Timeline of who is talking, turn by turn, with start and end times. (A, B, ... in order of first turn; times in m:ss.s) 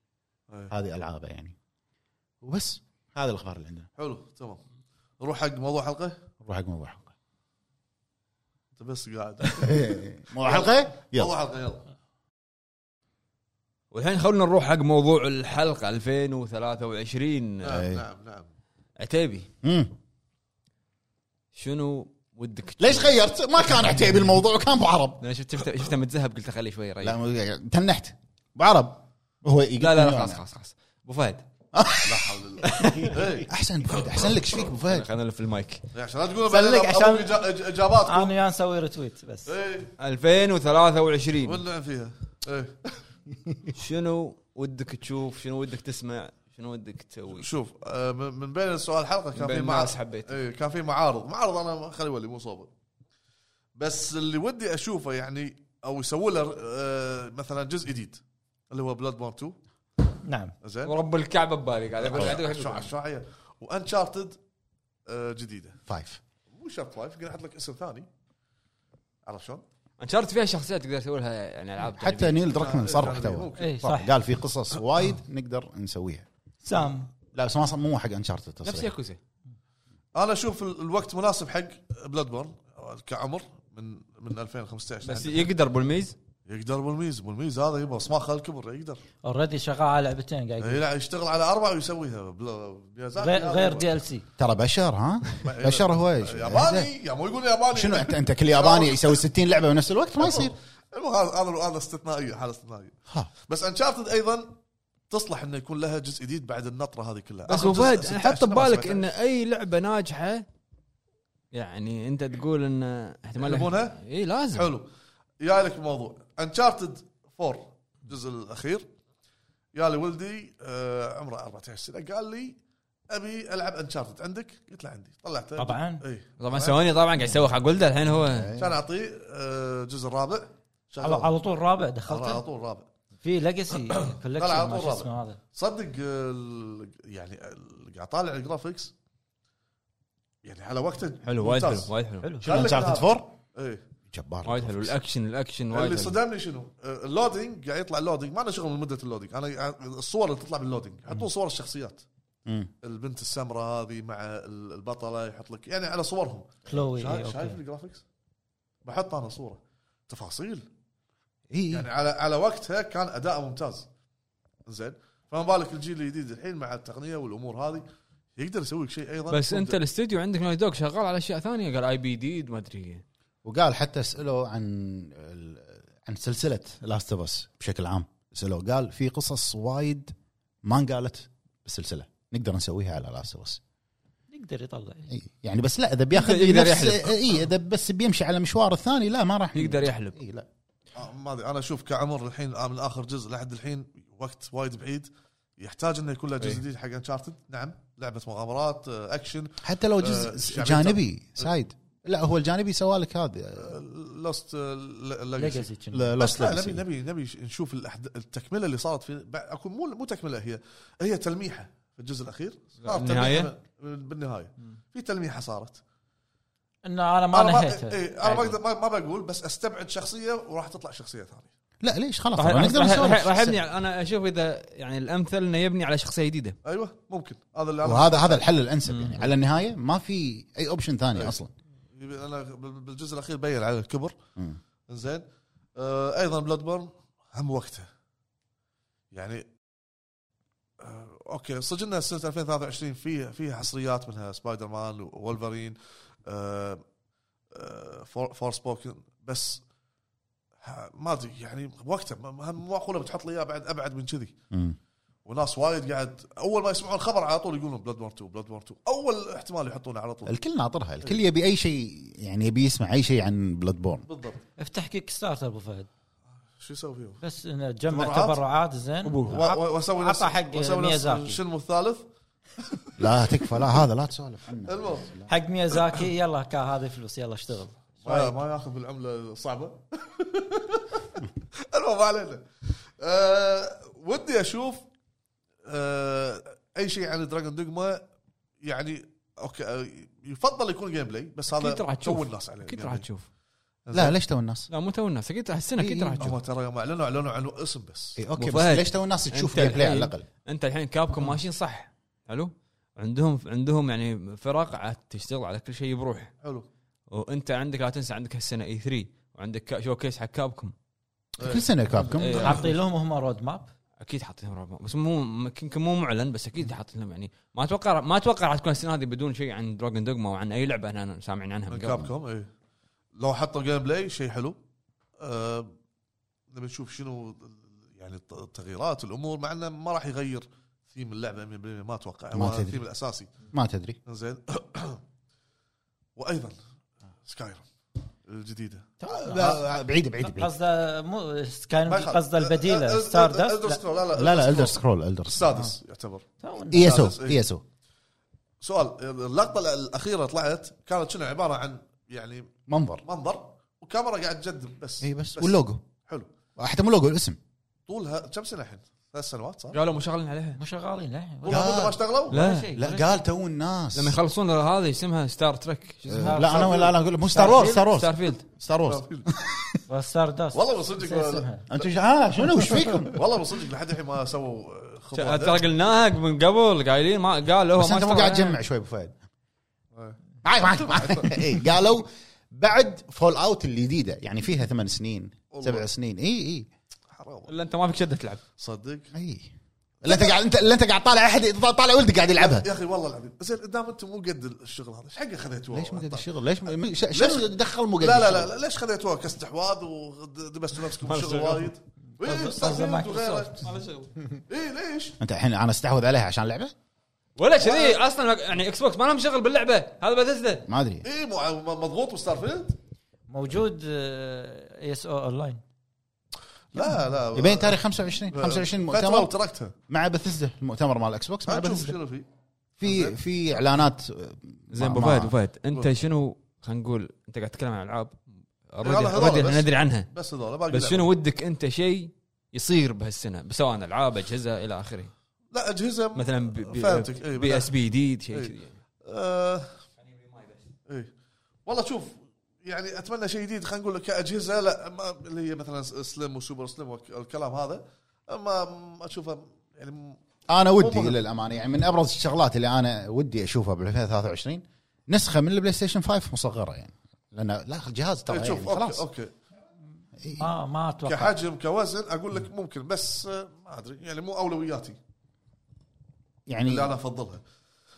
0:00.7-0:01.5 A
0:02.4-0:03.9 A
0:04.0-0:04.6 B
0:05.2-0:06.2 B
0:06.4-0:07.1 A
0:08.8-0:11.8 B
0:09.5-0:11.3 A
0:13.9-0:17.8 C
0:17.6-0:18.5 B
0:17.8-0:18.0 A
0:19.0-0:19.5 C
0:19.6-0:19.9 A
0:21.5-0:23.2 C
0:22.8-0:25.2 A
0:25.2-0:27.2 C
0:27.0-0:30.4 A
0:29.8-0:31.4 C
0:31.7-0:35.1 A
0:32.0-0:33.5 B
0:32.6-0:33.2 C
0:34.8-0:35.9 C
0:35.9-0:38.3 B
0:36.5-0:37.2 A
0:38.0-0:39.5 D
0:39.5-0:39.9 B
0:40.0-0:41.6 C
0:41.4-0:43.0 B
0:43.7-0:47.5 C
0:47.3-0:52.7 B
0:49.4-0:50.4 C
0:53.8-0:59.6 B
1:00.2-1:00.5 D
1:00.6-1:00.9 B
1:00.8-1:02.9 C
1:02.0-1:04.4 B
1:02.1-1:02.6 A
1:05.0-1:05.8 B
1:05.9-1:06.2 A
1:06.5-1:08.1 B
1:09.2-1:09.6 B
1:10.0-1:12.5 C
1:11.8-1:16.3 A
1:12.5-1:14.0 B
1:13.6-1:14.2 D
1:16.6-1:17.1 D
1:17.2-1:18.9 A
1:18.6-1:19.2 C
1:20.1-1:25.5 B
1:25.0-1:26.2 C
1:26.5-1:29.0 B
1:29.2-1:30.8 D
1:30.6-1:34.0 B
1:33.2-1:34.3 D
1:34.4-1:36.9 A
1:35.4-1:39.2 B
1:37.7-1:40.5 A
1:40.2-1:44.6 B
1:45.1-1:49.1 B
1:47.5-1:50.4 C
1:51.5-1:54.7 C
1:53.4-1:54.0 B
1:54.5-1:54.9 B
1:55.4-1:58.9 B
1:59.7-2:02.6 B
2:03.1-2:06.8 B
2:05.6-2:06.0 D
2:06.4-2:08.5 C
2:08.3-2:08.8 A
2:08.6-2:11.3 B
2:11.0-2:12.4 D
2:12.1-2:12.9 B
2:13.2-2:15.4 D
2:13.9-2:18.9 B
2:20.4-2:23.8 B
2:21.2-2:22.3 C
2:22.2-2:22.6 D
2:22.4-2:23.3 A
2:24.1-2:24.9 A
2:24.4-2:26.2 C
2:25.7-2:32.0 B
2:32.8-2:38.0 B
2:36.7-2:37.6 D
2:38.8-2:40.7 B
2:41.5-2:41.8 A
2:41.7-2:43.9 B
2:44.6-2:47.8 B
2:48.4-2:49.8 B
2:49.3-2:53.0 C
2:53.4-3:03.6 A
3:04.3-3:05.1 D
3:05.1-3:10.4 A
3:06.1-3:07.2 C
3:09.5-3:10.2 C
3:10.9-3:21.5 B
3:19.6-3:23.8 A
3:23.6-3:35.8 B
3:25.4-3:26.2 D
3:25.9-3:26.8 A
3:32.8-3:33.5 C
3:36.8-3:38.5 D
3:37.3-3:41.5 B
3:41.8-3:43.6 A
3:42.4-3:46.6 C
3:46.6-3:48.5 B
3:47.8-3:51.5 A
3:48.9-3:49.2 C
3:51.9-3:54.2 B
3:54.9-3:55.2 B
3:55.8-3:57.9 B
3:59.1-3:59.5 B
4:00.8-4:06.8 B
4:07.5-4:09.6 B
4:10.6-4:14.4 B
4:14.5-4:14.8 A
4:15.2-4:20.4 B
4:20.2-4:24.1 A
4:24.1-4:24.4 B
4:24.6-4:25.9 D
4:26.6-4:27.2 B
4:27.2-4:31.4 D
4:27.9-4:28.4 B
4:29.3-4:32.0 B
4:32.6-4:32.9 B
4:33.0-4:35.3 A
4:34.6-4:35.1 B
4:35.3-4:38.4 D
4:38.0-4:44.9 B
4:45.6-4:48.0 B
4:48.6-4:53.1 B
4:51.5-4:53.3 C
4:53.9-4:54.2 B
4:53.9-4:54.7 A
4:54.7-4:56.3 C
4:55.8-4:56.4 A
4:56.2-4:58.2 B
4:58.2-5:00.2 A
4:58.4-5:06.3 C
5:07.1-5:10.7 C
5:11.4-5:12.6 A
5:11.4-5:11.6 B
5:12.0-5:13.7 D
5:12.2-5:12.6 C
5:14.0-5:22.1 C
5:21.7-5:22.5 B
5:23.2-5:24.6 B
5:25.2-5:25.7 B
5:26.5-5:33.4 B
5:32.3-5:32.8 A
5:33.5-5:34.0 A
5:34.1-5:35.0 B
5:36.2-5:36.6 B
5:37.2-5:37.7 B
5:38.2-5:38.9 B
5:39.0-5:40.5 A
5:39.1-5:39.6 D
5:40.2-5:43.8 D
5:41.9-5:46.2 B
5:44.1-5:45.7 A
5:46.4-5:47.1 D
5:46.7-5:47.6 A
5:46.8-5:47.4 B
5:48.6-5:56.3 B
5:52.7-5:53.0 A
5:55.0-5:55.8 A
5:56.6-5:57.4 A
5:57.9-5:59.8 B
5:59.7-6:00.6 C
6:00.5-6:03.2 D
6:01.4-6:02.4 B
6:01.5-6:02.0 A
6:02.3-6:02.7 C
6:02.7-6:04.2 A
6:03.9-6:06.4 C
6:06.1-6:09.8 A
6:06.2-6:07.9 D
6:06.4-6:06.9 B
6:07.9-6:08.4 C
6:08.8-6:09.3 B
6:09.9-6:11.7 D
6:10.5-6:11.9 B
6:11.7-6:13.2 A
6:12.6-6:15.6 B
6:15.1-6:18.6 C
6:17.8-6:19.2 A
6:19.9-6:20.2 B
6:20.4-6:26.7 A
6:20.9-6:21.4 B
6:25.5-6:25.9 B
6:27.1-6:27.5 B
6:27.5-6:28.4 C
6:28.6-6:29.1 B
6:29.1-6:29.5 A
6:30.0-6:32.7 A
6:32.4-6:36.3 B
6:35.7-6:38.5 A
6:37.1-6:43.7 B
6:41.0-6:41.7 C
6:42.2-6:43.4 D
6:42.9-6:44.1 C
6:44.5-6:45.2 B
6:45.2-6:46.7 A
6:47.4-6:50.6 C
6:47.6-6:48.0 B
6:50.7-6:51.0 A
6:51.0-6:52.8 B
6:53.3-6:55.6 D
6:56.7-6:59.7 B
6:57.3-6:59.3 A
6:59.9-7:02.0 A
7:01.4-7:02.2 B
7:02.8-7:05.4 A
7:02.8-7:03.2 B
7:04.7-7:10.1 C
7:08.8-7:11.1 B
7:10.7-7:15.1 C
7:15.5-7:17.7 B
7:16.1-7:18.8 C
7:18.3-7:19.8 B
7:21.6-7:30.2 B
7:30.5-7:39.0 A
7:30.8-7:31.2 B
7:38.3-7:39.3 B
7:40.2-7:40.5 A
7:40.4-7:41.4 D
7:41.0-7:45.0 B
7:46.5-7:46.9 A
7:46.6-7:47.4 B